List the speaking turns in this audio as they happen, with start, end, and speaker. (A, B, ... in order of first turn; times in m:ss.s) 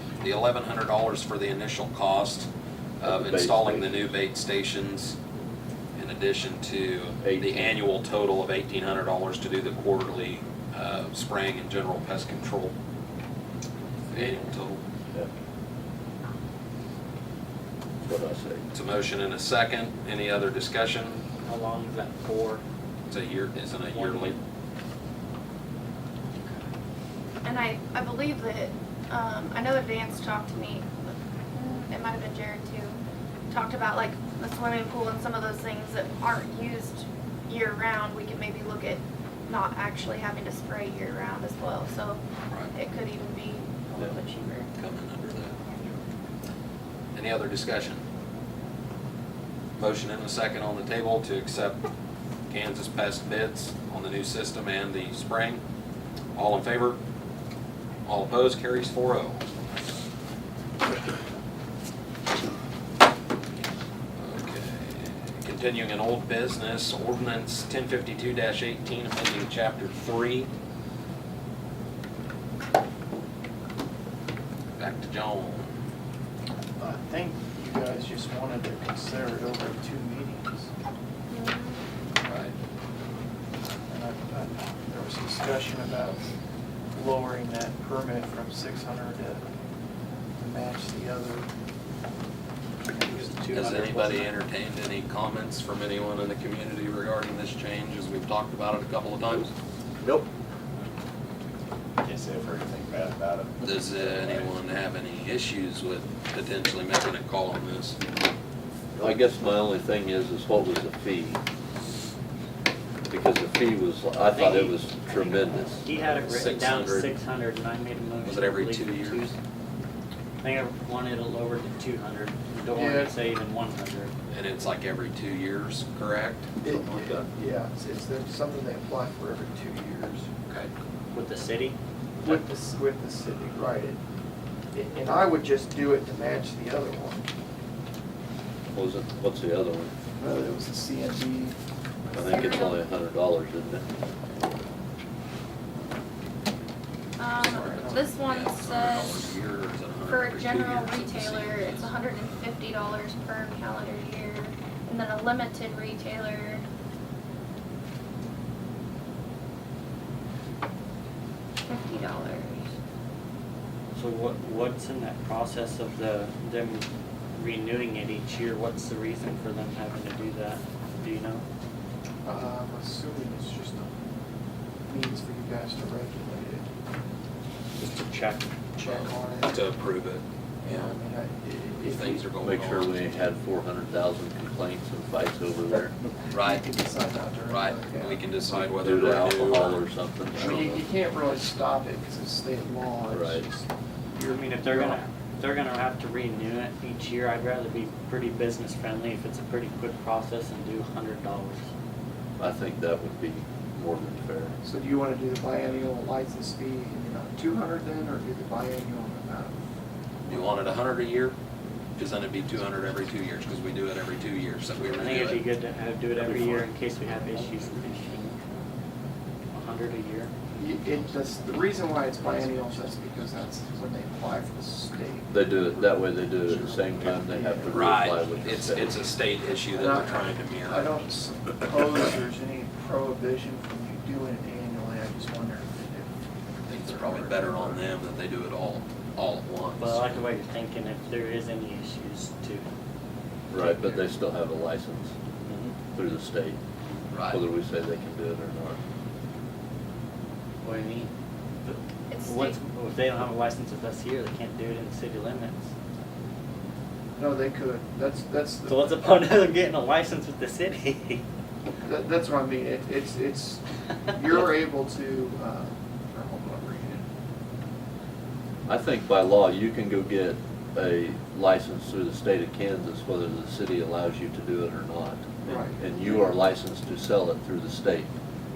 0:00.2-0:02.5 A
0:03.0-0:05.2 A
0:03.0-0:04.1 B
0:06.0-0:12.7 A
0:07.2-0:07.8 B
0:14.1-0:14.8 A
0:18.0-0:18.6 B
0:18.7-0:21.2 A
0:21.2-0:22.6 C
0:23.1-0:24.4 A
0:23.6-0:24.4 C
0:27.4-0:33.0 D
0:33.5-0:42.2 D
0:42.7-0:44.7 D
0:44.8-0:45.6 A
0:47.1-0:48.0 A
0:49.8-0:51.8 A
0:52.5-0:55.6 A
0:56.4-0:57.0 A
0:58.0-0:59.4 A
1:04.2-1:10.5 A
1:14.8-1:15.7 A
1:16.8-1:20.7 E
1:21.3-1:21.8 D
1:22.2-1:22.5 A
1:23.9-1:26.2 E
1:26.9-1:29.4 E
1:30.4-1:31.5 E
1:32.9-1:34.3 C
1:32.9-1:33.3 E
1:33.5-1:39.5 A
1:42.0-1:44.3 F
1:43.6-1:48.0 A
1:49.0-1:51.4 B
1:53.1-1:55.9 B
1:54.3-1:59.4 C
1:56.1-1:57.2 A
1:58.2-1:59.3 A
2:00.4-2:04.1 C
2:02.7-2:03.1 E
2:04.3-2:07.2 A
2:06.6-2:10.3 E
2:11.1-2:11.8 C
2:12.2-2:14.0 E
2:14.7-2:17.2 E
2:18.7-2:19.9 B
2:20.2-2:21.6 E
2:22.1-2:23.8 B
2:22.2-2:22.8 D
2:27.2-2:29.2 D
2:27.4-2:28.1 E
2:28.2-2:31.9 A
2:30.1-2:36.6 D
2:41.7-2:42.7 D
2:44.0-2:51.4 C
2:52.2-2:53.9 E
2:54.9-2:56.7 E
2:57.8-2:58.5 C
2:58.8-2:59.6 E
2:58.8-3:01.0 A
3:00.6-3:02.2 E
3:01.9-3:03.0 A
3:02.4-3:05.9 B
3:05.7-3:08.3 E
3:06.3-3:06.7 A
3:07.5-3:09.8 A
3:08.8-3:10.8 B
3:10.3-3:15.0 E
3:13.1-3:13.5 B
3:14.3-3:21.7 C
3:22.4-3:24.6 B
3:24.6-3:29.6 E
3:30.3-3:31.3 A
3:32.0-3:35.4 A
3:34.9-3:38.4 C
3:36.2-3:36.7 B
3:39.5-3:40.5 C
3:40.6-3:45.9 E
3:45.3-3:49.0 B
3:46.4-3:48.3 E
3:47.7-3:50.9 A
3:49.6-3:56.1 E
3:56.7-4:00.2 A
3:56.7-3:57.8 E
3:59.8-4:02.6 C
4:03.5-4:05.1 B
4:05.9-4:06.6 B
4:07.1-4:07.4 A
4:07.2-4:08.8 B
4:10.6-4:11.1 C
4:11.6-4:15.7 C
4:12.1-4:12.6 D
4:17.2-4:18.9 E
4:18.7-4:21.2 C
4:21.8-4:27.0 E
4:28.7-4:38.1 B
4:35.5-4:36.3 E